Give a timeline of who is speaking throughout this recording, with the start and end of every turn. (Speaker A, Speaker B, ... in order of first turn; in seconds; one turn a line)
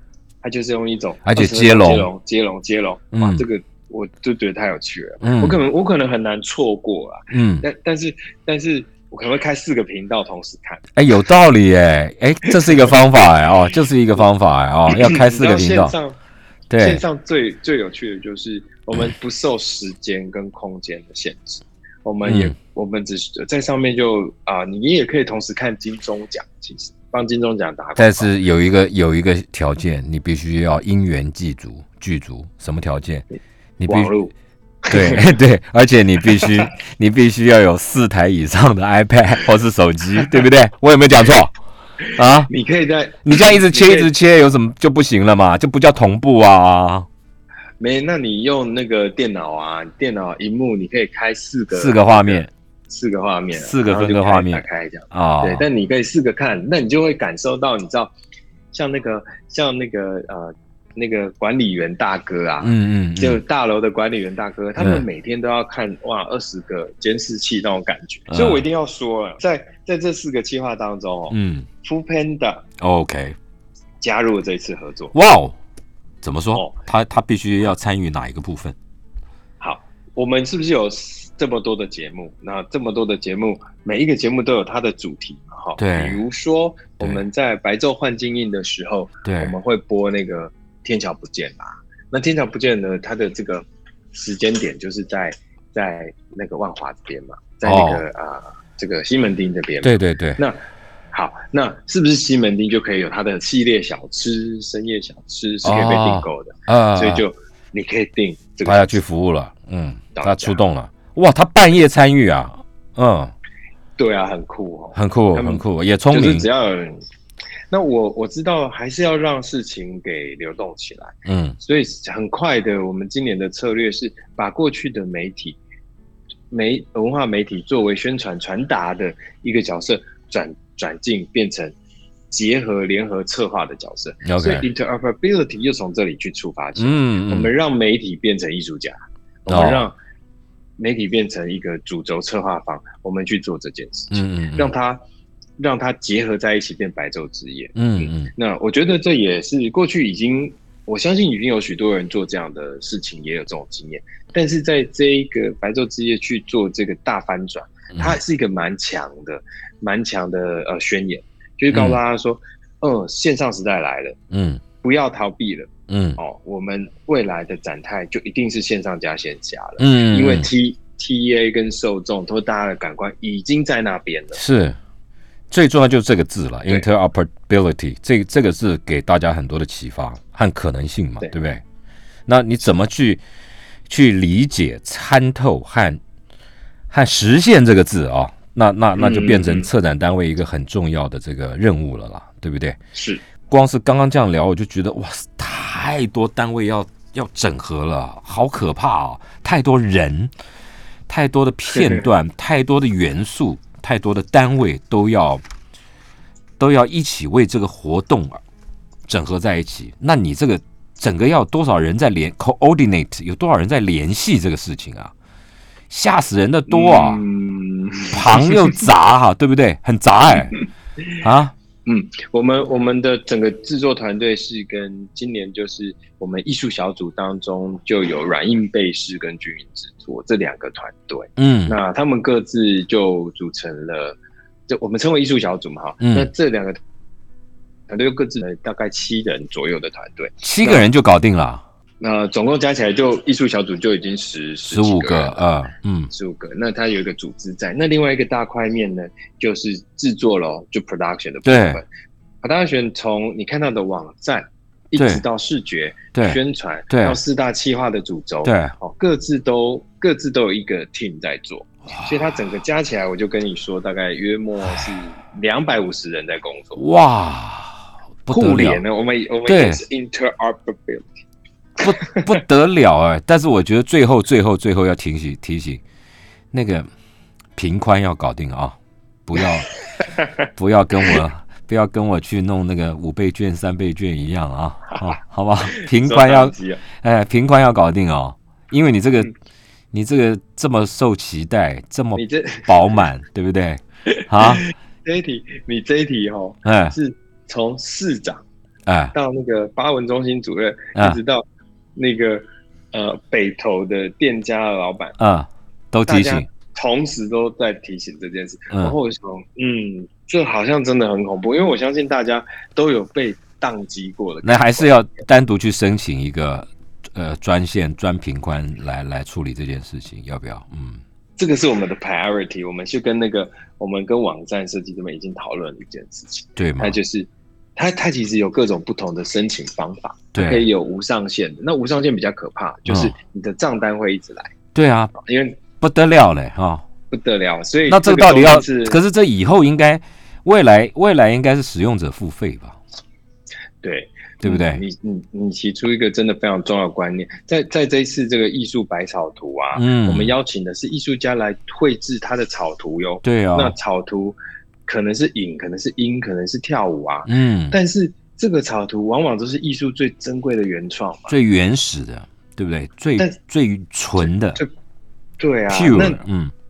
Speaker A: 0.4-10.8
Speaker B: 1.2-2.1
Speaker B: 3.1-3.5
Speaker B: 5.2-5.6
Speaker B: 7.3-7.7
Speaker B: 11.0-15.9
Speaker A: 12.4-12.7
Speaker A: 14.9-16.2
Speaker B: 16.7-17.0
Speaker A: 16.8-28.3
Speaker B: 22.2-22.6
Speaker B: 28.0-33.2
Speaker B: 33.8-34.1
Speaker A: 33.9-34.3
Speaker A: 34.9-35.3
Speaker B: 34.9-41.5
Speaker A: 36.3-36.7
Speaker B: 42.1-42.5
Speaker A: 42.4-44.1
Speaker B: 43.2-47.1
Speaker A: 47.8-58.1
Speaker B: 51.7-52.5
Speaker B: 53.6-55.7
Speaker A: 58.7-72.7
Speaker B: 62.6-63.4
Speaker B: 64.8-65.0
Speaker B: 68.3-68.6
Speaker B: 71.3-71.7
Speaker B: 72.8-73.4
Speaker A: 74.0-75.1
Speaker B: 75.1-75.6
Speaker B: 76.2-78.8
Speaker A: 79.6-100.6
Speaker B: 85.8-86.2
Speaker B: 89.2-89.6
Speaker B: 97.6-98.0
Speaker B: 99.8-100.4
Speaker A: 101.1-109.0
Speaker B: 105.6-107.3
Speaker B: 108.7-113.3
Speaker A: 110.2-110.6
Speaker A: 114.0-117.0
Speaker B: 115.0-116.5
Speaker A: 117.7-125.6
Speaker B: 121.3-121.6
Speaker A: 126.5-131.8
Speaker A: 132.3-139.9
Speaker B: 134.2-134.7
Speaker B: 136.8-137.5
Speaker B: 139.5-139.9
Speaker A: 140.8-145.0
Speaker B: 144.1-144.7
Speaker A: 145.6-164.2
Speaker B: 147.8-148.3
Speaker B: 157.9-158.2
Speaker B: 161.7-162.0
Speaker B: 164.3-164.6
Speaker A: 164.8-174.4
Speaker B: 165.9-166.2
Speaker B: 169.8-170.5
Speaker B: 174.3-174.8
Speaker B: 175.5-181.6
Speaker B: 182.3-183.2
Speaker B: 183.9-186.0
Speaker B: 186.9-192.8
Speaker A: 188.9-189.7
Speaker A: 192.9-193.2
Speaker B: 193.5-200.3
Speaker B: 201.1-205.4
Speaker A: 201.7-202.1
Speaker B: 206.6-208.4
Speaker B: 209.1-215.1
Speaker B: 215.9-217.2
Speaker A: 216.7-218.8
Speaker B: 218.1-220.6
Speaker B: 221.2-221.5
Speaker A: 221.9-236.8
Speaker B: 231.4-231.8
Speaker B: 236.0-236.3
Speaker A: 237.9-240.9
Speaker B: 240.4-241.6
Speaker A: 242.0-245.4
Speaker B: 244.7-246.1
Speaker A: 246.1-251.9
Speaker B: 251.4-251.8
Speaker A: 252.4-266.8
Speaker B: 255.0-255.2
Speaker B: 256.1-257.2
Speaker B: 258.4-258.8
Speaker B: 261.9-262.2
Speaker B: 266.8-268.8
Speaker A: 268.3-271.2
Speaker B: 269.5-269.8
Speaker A: 271.8-272.3
Speaker B: 271.8-275.8
Speaker B: 276.5-276.9
Speaker B: 277.6-279.7
Speaker B: 280.6-289.3
Speaker A: 285.8-286.8
Speaker B: 289.9-294.6
Speaker A: 292.1-292.7
Speaker A: 294.1-298.4
Speaker B: 296.6-296.9
Speaker B: 298.9-299.1
Speaker A: 299.1-301.4
Speaker B: 300.9-301.2
Speaker A: 302.0-305.2
Speaker B: 305.2-306.5
Speaker A: 306.1-314.9
Speaker B: 314.4-321.0
Speaker A: 321.4-334.5
Speaker B: 326.6-327.0
Speaker B: 330.3-330.6
Speaker B: 332.9-333.1
Speaker B: 334.7-335.1
Speaker A: 335.1-335.6
Speaker B: 335.8-336.9
Speaker A: 337.1-339.0
Speaker B: 337.9-342.8
Speaker A: 343.8-354.4
Speaker B: 344.4-344.8
Speaker B: 349.7-350.4
Speaker B: 353.2-353.8
Speaker A: 354.9-361.4
Speaker B: 357.3-357.8
Speaker B: 361.3-364.6
Speaker A: 364.2-364.7
Speaker A: 365.4-366.2
Speaker B: 365.7-366.5